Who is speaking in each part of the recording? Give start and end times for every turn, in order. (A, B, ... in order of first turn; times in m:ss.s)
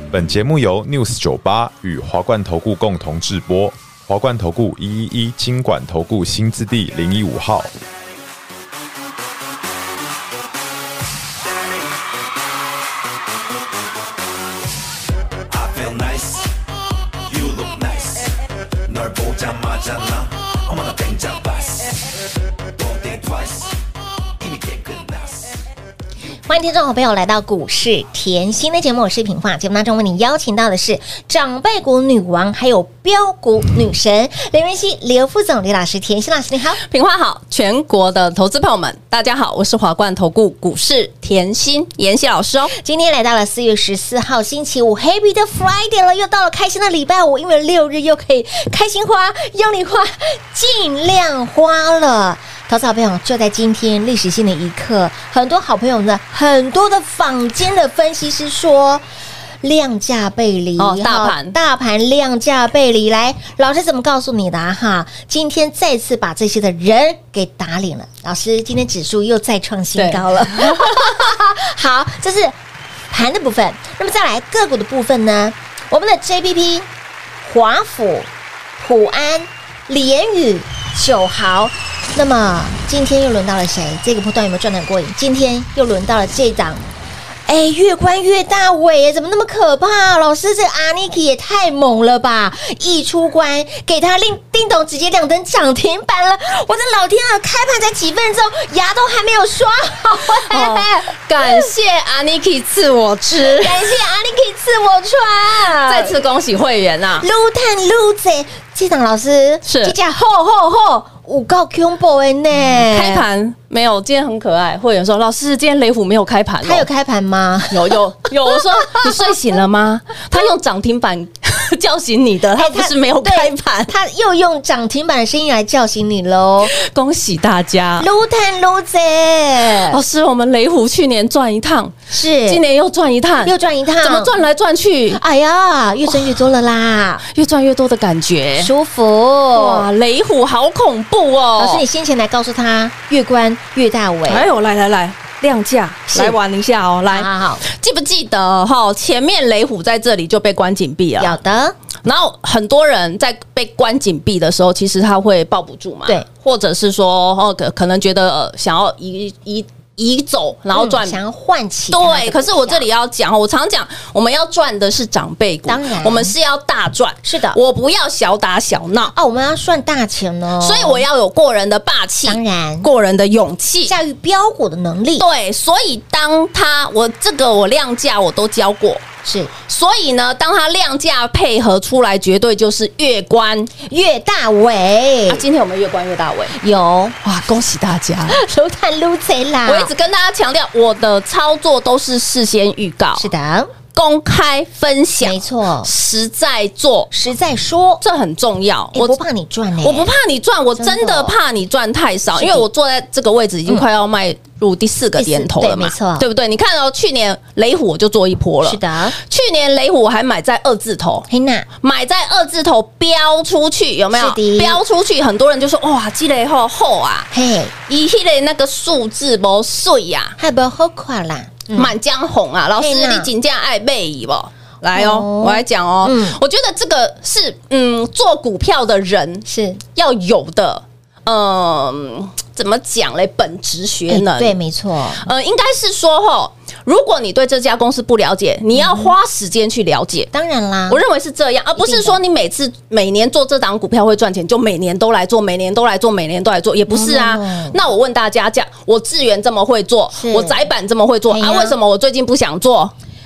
0:00.1-0:07.7 A
0:17.6-0:18.0 B
0:18.9-0:20.1 B
0:20.8-0:21.7 B
0:24.4-0:24.9 B
0:26.5-0:36.8 C
0:36.8-0:42.7 D
0:42.7-0:59.0 C
0:59.6-1:12.6 C
1:00.8-1:01.5 D
1:10.0-1:11.1 D
1:13.1-1:16.9 C
1:17.4-1:26.8 C
1:27.5-1:41.7 C
1:40.4-1:43.9 D
1:43.4-1:46.2 C
1:45.7-1:47.3 D
1:47.2-1:53.2 C
1:49.6-1:49.9 D
1:52.6-1:56.8 D
1:56.6-1:57.9 C
1:57.7-2:03.9 D
1:58.5-1:59.2 C
2:02.5-2:06.7 C
2:06.6-2:08.1 D
2:08.0-2:10.0 C
2:09.8-2:11.9 D
2:12.1-2:12.6 C
2:12.4-2:15.2 D
2:13.4-2:14.3 C
2:15.1-2:17.2 C
2:17.3-2:18.7 D
2:18.6-2:19.9 C
2:19.5-2:21.8 D
2:21.6-2:24.5 C
2:24.3-2:31.4 D
2:26.1-2:26.4 C
2:27.1-2:27.6 C
2:31.2-2:31.8 C
2:32.0-2:41.2 D
2:40.7-2:42.8 C
2:41.9-2:49.1 D
2:45.7-2:46.3 C
2:47.2-2:47.6 C
2:49.1-2:51.0 C
2:50.6-2:53.9 D
2:52.2-2:52.9 C
2:53.8-2:55.2 C
2:55.2-2:59.0 D
2:59.2-2:59.5 C
2:59.7-3:03.7 D
3:03.8-3:05.4 C
3:05.3-3:06.5 D
3:06.6-3:07.2 C
3:07.2-3:08.4 D
3:08.3-3:09.9 C
3:09.6-3:13.3 D
3:13.2-3:13.7 C
3:13.9-3:17.1 D
3:15.2-3:15.9 C
3:17.1-3:18.0 C
3:18.0-3:19.2 D
3:18.9-3:20.1 C
3:19.8-3:31.2 D
3:20.8-3:21.4 C
3:22.3-3:22.6 C
3:25.2-3:26.2 C
3:28.6-3:29.2 C
3:31.3-3:31.7 C
3:31.8-3:37.3 D
3:34.1-3:34.8 C
3:37.3-3:37.7 C
3:37.8-3:40.4 D
3:40.4-3:41.9 C
3:41.7-3:54.6 D
3:42.8-3:43.3 C
3:44.9-3:46.4 C
3:49.4-3:49.8 C
3:54.1-3:55.2 C
3:55.2-4:00.3 D
3:58.7-3:59.1 C
4:00.3-4:01.0 C
4:00.9-4:12.9 D
4:01.8-4:02.2 C
4:06.9-4:07.8 C
4:10.1-4:10.6 C
4:11.3-4:11.8 C